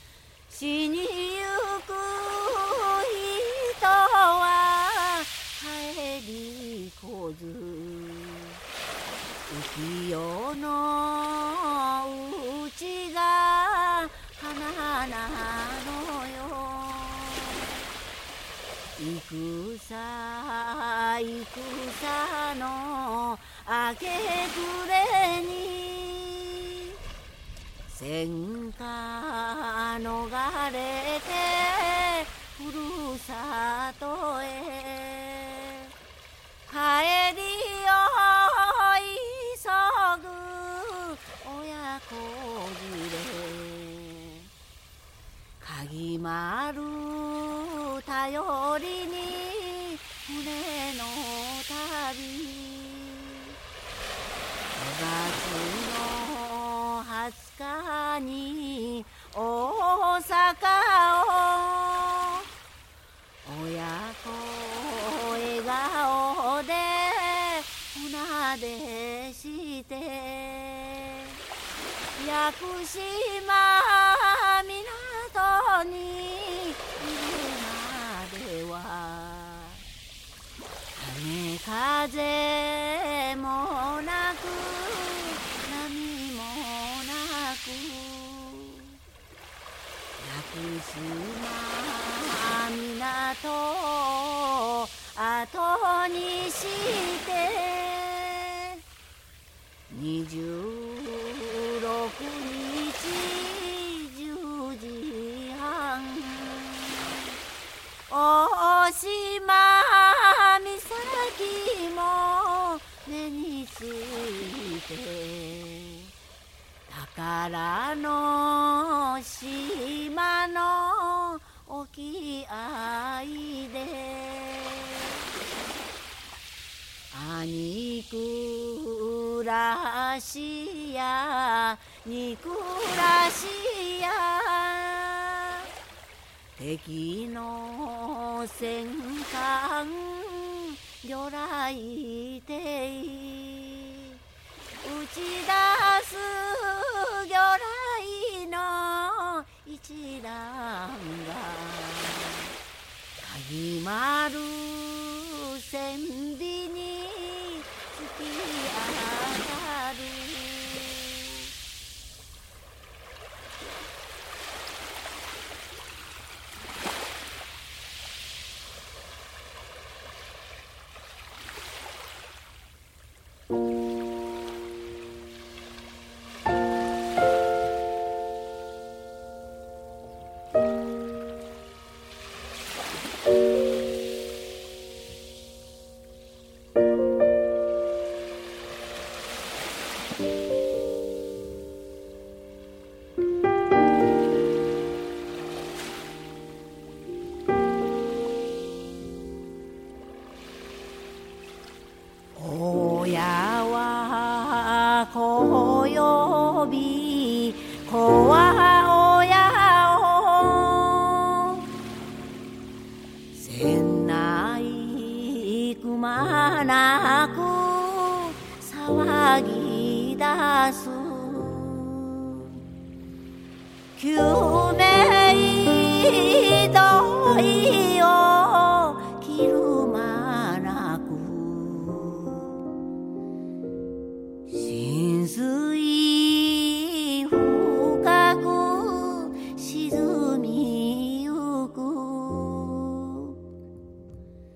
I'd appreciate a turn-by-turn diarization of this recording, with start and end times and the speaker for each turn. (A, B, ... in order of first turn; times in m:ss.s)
0:00.5-0:08.6 A
0:09.5-0:17.8 A
0:19.0-0:26.6 A
0:27.9-0:35.9 A
0:36.7-0:44.5 A
0:45.6-0:53.4 A
0:54.8-1:02.4 A
1:03.4-1:11.3 A
1:12.2-1:19.8 A
1:21.0-1:28.8 A
1:30.2-1:38.6 A
1:39.9-1:47.2 A
1:48.1-1:56.1 A
1:56.9-2:05.0 A
2:07.1-2:15.4 A
2:16.6-2:24.1 A
2:24.8-2:32.5 A
2:33.2-2:41.5 A
3:22.4-3:31.6 A
3:33.3-3:42.4 A
3:44.0-3:52.6 A
3:54.5-4:03.3 A